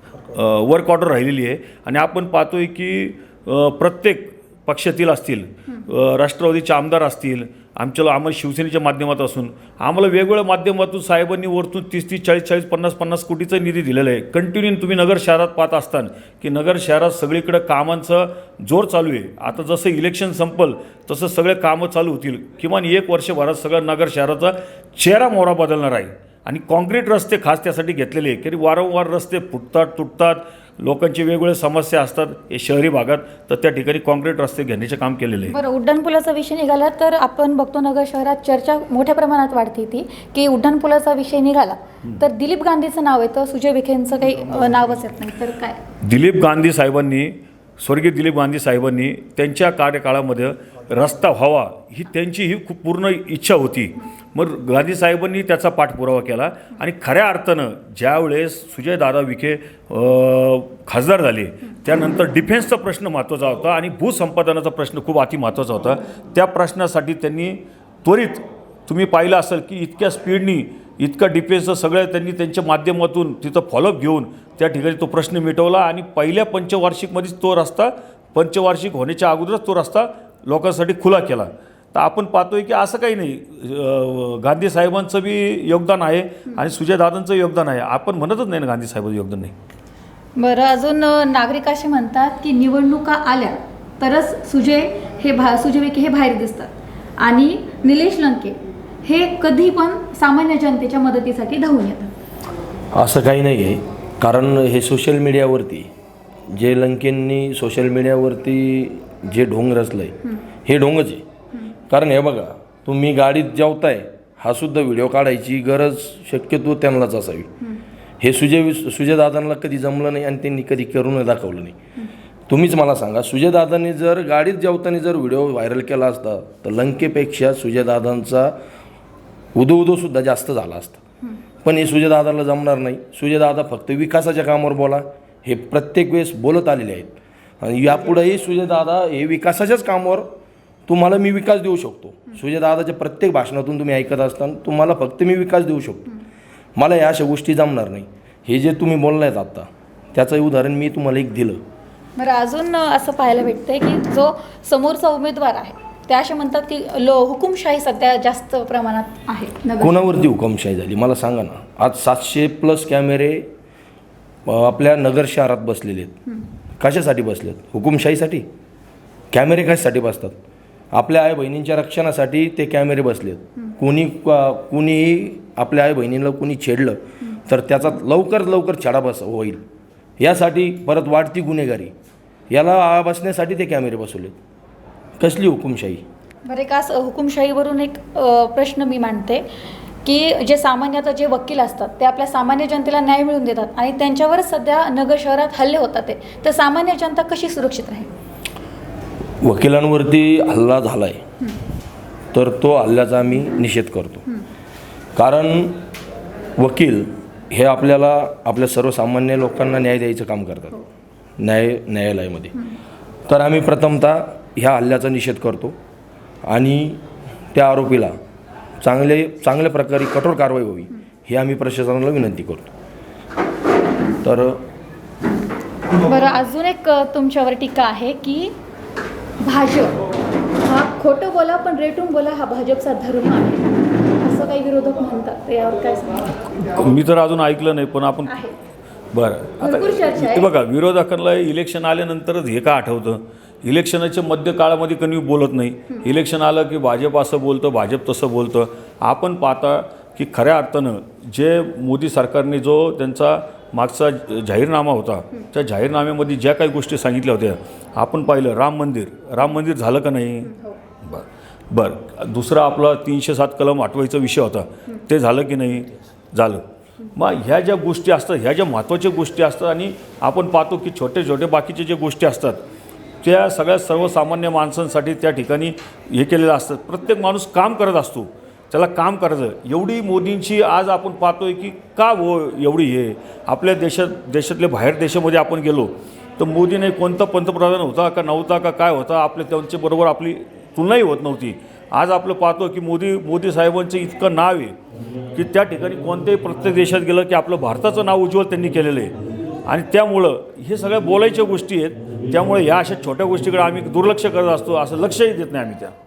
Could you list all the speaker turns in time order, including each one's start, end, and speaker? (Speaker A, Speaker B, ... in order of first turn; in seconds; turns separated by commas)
Speaker A: 0.3-35.5, Speaker B: 35.5-45.8, Speaker A: 46.0-89.5, Speaker B: 90.3-102.1, Speaker C: 102.9-105.9, Speaker C: 106.5-111.2, Speaker C: 111.9-117.5, Speaker C: 118.2-121.8, Speaker C: 122.5-128.6, Speaker C: 129.5-131.0, Speaker C: 131.6-140.3, Speaker C: 140.9-146.1, Speaker C: 146.8-151.6, Speaker B: 152.2-160.0, Speaker C: 159.8-163.5, Speaker C: 164.4-166.2, Speaker C: 166.8-168.5, Speaker C: 169.3-170.3, Speaker C: 170.9-179.6, Speaker C: 180.2-181.9, Speaker C: 182.5-184.3, Speaker C: 185.2-186.0, Speaker B: 186.4-189.4, Speaker B: 190.0-198.1, Speaker C: 199.4-201.2, Speaker C: 202.3-204.2, Speaker C: 205.1-205.8, Speaker C: 206.6-210.7, Speaker C: 211.4-212.5, Speaker C: 213.3-215.8, Speaker C: 216.4-218.2, Speaker C: 218.8-222.7, Speaker C: 224.2-224.6, Speaker B: 226.0-228.5, Speaker B: 229.4-230.0, Speaker B: 230.6-236.3, Speaker A: 236.5-238.3, Speaker B: 238.3-238.5, Speaker A: 239.1-260.5, Speaker B: 239.6-240.5, Speaker B: 260.4-260.8, Speaker A: 261.0-266.6, Speaker A: 267.1-272.6, Speaker A: 273.2-294.8, Speaker A: 295.3-299.1, Speaker A: 299.6-305.9